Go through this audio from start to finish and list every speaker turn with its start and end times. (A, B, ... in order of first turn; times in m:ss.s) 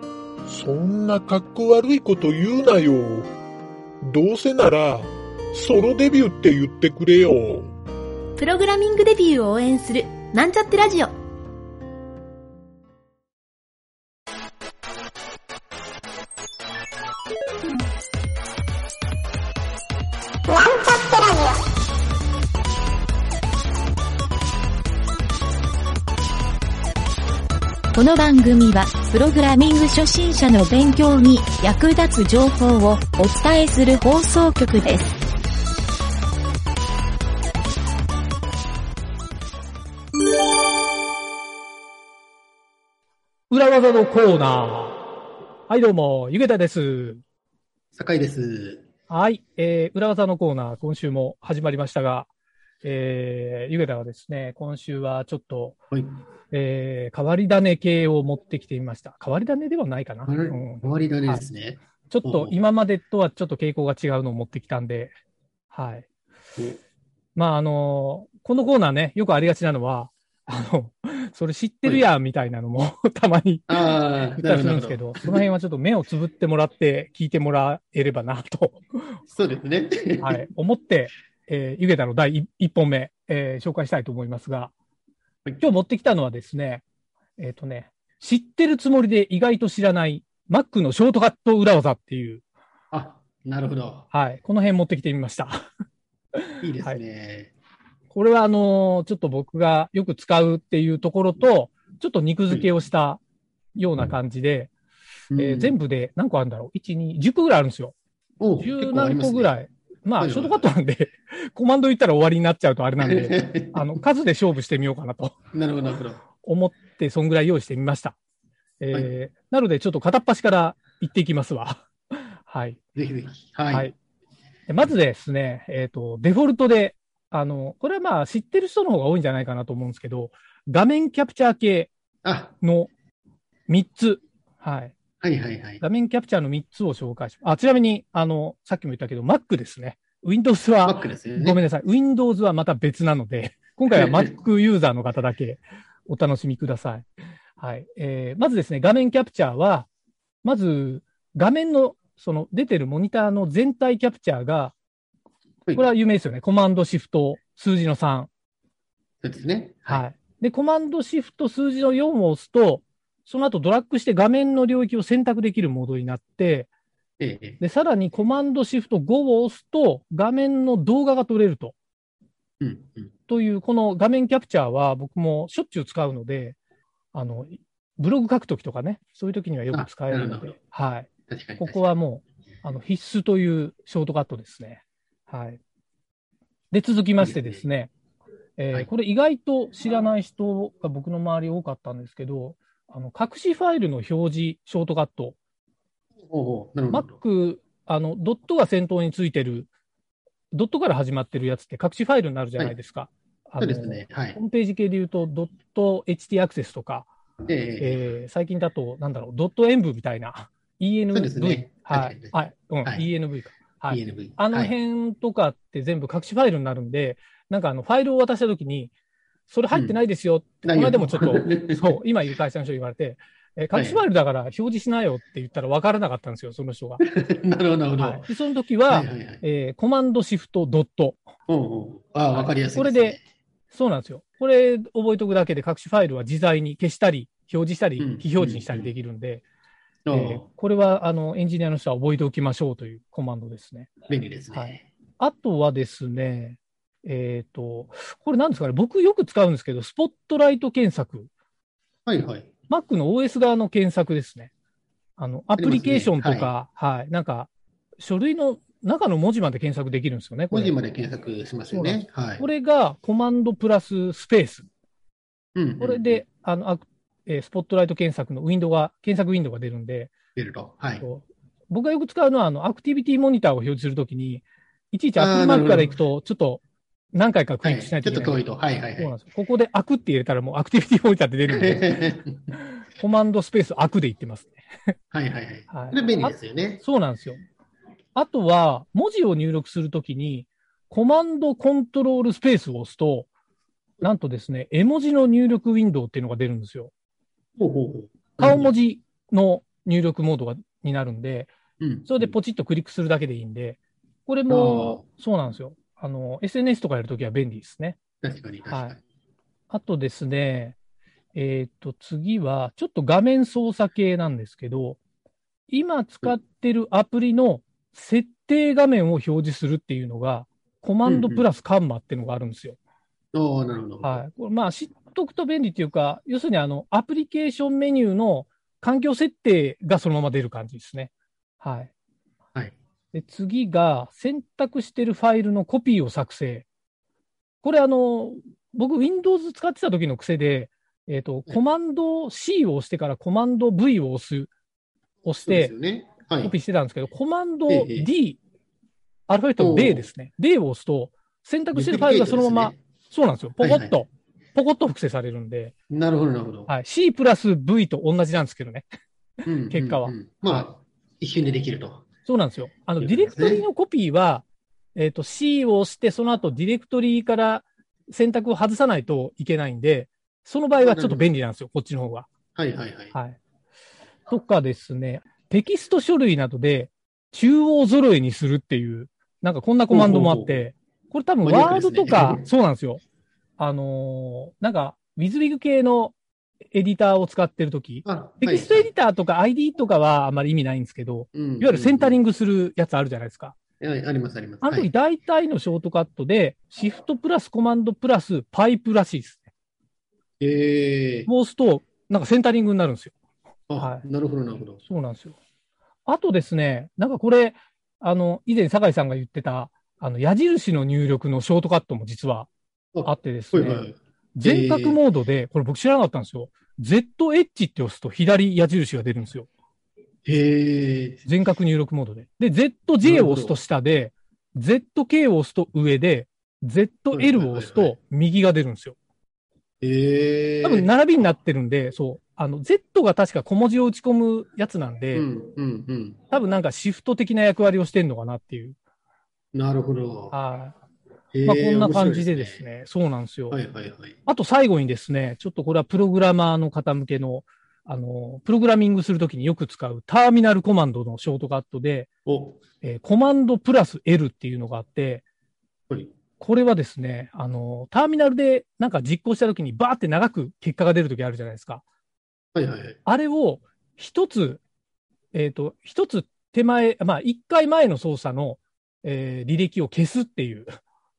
0:00.5-0:03.3 A
0:04.0-0:07.7 A
0:08.4-0:11.1 B
0:27.9-0:35.1 C
0:43.5-0:45.0 D
0:45.7-0:47.2 D
0:47.9-0:48.8 E
0:49.1-0:52.3 D
0:52.8-0:55.8 D
0:55.9-0:56.2 E
0:56.5-1:01.5 D
1:00.3-1:02.6 E
1:02.1-1:05.2 D
1:05.7-1:06.1 D
1:07.4-1:13.7 D
1:13.7-1:15.4 E
1:14.4-1:18.8 D
1:19.3-1:20.4 E
1:20.2-1:24.7 D
1:25.6-1:26.8 D
1:27.4-1:32.4 D
1:32.9-1:34.1 E
1:34.1-1:35.6 D
1:36.6-1:37.5 E
1:38.1-1:43.2 D
1:43.8-1:44.7 D
1:45.3-1:45.8 E
1:45.4-1:48.0 D
1:48.4-1:49.6 E
1:48.6-1:55.4 D
1:50.2-1:50.7 E
1:53.0-1:53.9 E
1:55.5-1:56.2 E
1:56.4-1:58.2 D
1:58.8-2:01.9 D
2:02.4-2:02.8 D
2:03.0-2:03.9 E
2:04.7-2:11.9 D
2:12.2-2:12.6 E
2:12.6-2:12.9 D
2:13.7-2:14.9 D
2:15.2-2:15.8 E
2:15.8-2:27.1 D
2:20.8-2:21.6 E
2:23.9-2:24.3 E
2:27.6-2:29.9 D
2:30.4-2:34.8 D
2:35.8-2:38.3 D
2:39.2-2:40.0 E
2:39.9-2:46.7 D
2:47.2-2:47.6 E
2:47.6-2:51.8 D
2:52.6-2:53.1 E
2:53.3-2:56.6 D
2:57.1-3:05.6 D
2:59.7-3:00.6 E
3:01.3-3:01.8 E
3:06.7-3:07.9 D
3:07.2-3:07.7 E
3:08.6-3:15.4 D
3:16.3-3:17.1 E
3:16.9-3:19.7 D
3:20.5-3:27.1 D
3:23.6-3:24.4 E
3:27.5-3:28.1 E
3:27.8-3:38.9 D
3:31.1-3:32.3 E
3:33.9-3:34.7 E
3:39.5-3:47.0 D
3:40.6-3:42.0 E
3:43.8-3:44.0 E
3:47.0-3:48.3 E
3:48.0-3:51.2 D
3:48.9-3:49.4 E
3:51.5-3:53.2 E
3:52.3-3:53.2 D
3:53.7-3:59.4 D
3:58.0-3:58.9 E
4:00.1-4:00.5 E
4:00.1-4:03.9 D
4:04.1-4:04.8 E
4:04.5-4:11.3 D
4:12.1-4:12.5 E
4:12.7-4:14.5 D
4:15.2-4:20.8 D
4:15.6-4:16.5 E
4:20.5-4:22.4 E
4:21.7-4:24.7 D
4:25.6-4:26.2 E
4:25.8-4:30.1 D
4:30.4-4:31.0 E
4:31.0-4:36.6 D
4:35.2-4:36.0 E
4:37.1-4:38.4 D
4:37.6-4:39.1 E
4:39.0-4:41.9 D
4:41.5-4:42.4 E
4:43.0-4:44.6 D
4:45.1-4:46.8 E
4:45.7-4:47.4 D
4:48.2-4:53.3 D
4:54.0-4:56.9 D
4:57.6-4:58.8 E
4:58.4-5:01.5 D
5:01.8-5:02.3 E
5:02.1-5:08.0 D
5:04.5-5:05.0 E
5:08.2-5:09.0 E
5:08.7-5:09.0 D
5:09.7-5:10.8 D
5:11.4-5:15.0 D
5:15.7-5:22.8 D
5:21.1-5:21.5 E
5:23.3-5:24.2 E
5:24.0-5:31.9 D
5:33.1-5:36.7 D
5:37.6-5:44.5 D
5:45.2-5:45.7 D
5:45.4-5:46.6 E
5:46.4-5:48.4 D
5:47.7-5:48.1 E
5:49.3-5:55.8 D
5:49.6-5:50.1 E
5:51.7-5:52.8 E
5:53.6-5:54.0 E
5:55.9-5:56.7 E
5:56.7-5:58.9 D
5:59.5-6:02.0 E
5:59.7-6:00.7 D
6:02.2-6:12.3 D
6:03.0-6:03.7 E
6:10.8-6:11.3 E
6:12.6-6:13.2 E
6:13.1-6:13.4 D
6:14.3-6:23.0 D
6:19.9-6:20.6 E
6:21.4-6:22.5 E
6:23.6-6:26.2 D
6:26.7-6:33.6 D
6:28.0-6:28.9 E
6:31.3-6:32.2 E
6:33.8-6:34.9 E
6:34.6-6:39.5 D
6:40.4-6:41.3 E
6:41.3-6:43.2 D
6:43.7-6:44.8 E
6:43.8-6:44.0 D
6:44.7-6:45.4 D
6:46.1-6:52.5 D
6:52.9-6:55.0 E
6:53.0-6:59.5 D
7:00.3-7:01.2 E
7:01.3-7:09.0 D
7:03.0-7:03.6 E
7:07.1-7:08.0 E
7:09.8-7:10.9 E
7:10.6-7:15.3 D
7:15.1-7:16.2 E
7:16.3-7:18.8 D
7:19.5-7:20.4 E
7:20.3-7:20.8 D
7:21.3-7:22.6 E
7:21.4-7:23.6 D
7:23.5-7:24.2 E
7:24.3-7:32.1 D
7:32.3-7:32.6 E
7:32.8-7:35.2 D
7:36.4-7:41.8 D
7:42.6-7:43.0 E
7:43.0-7:44.6 D
7:45.3-7:50.7 D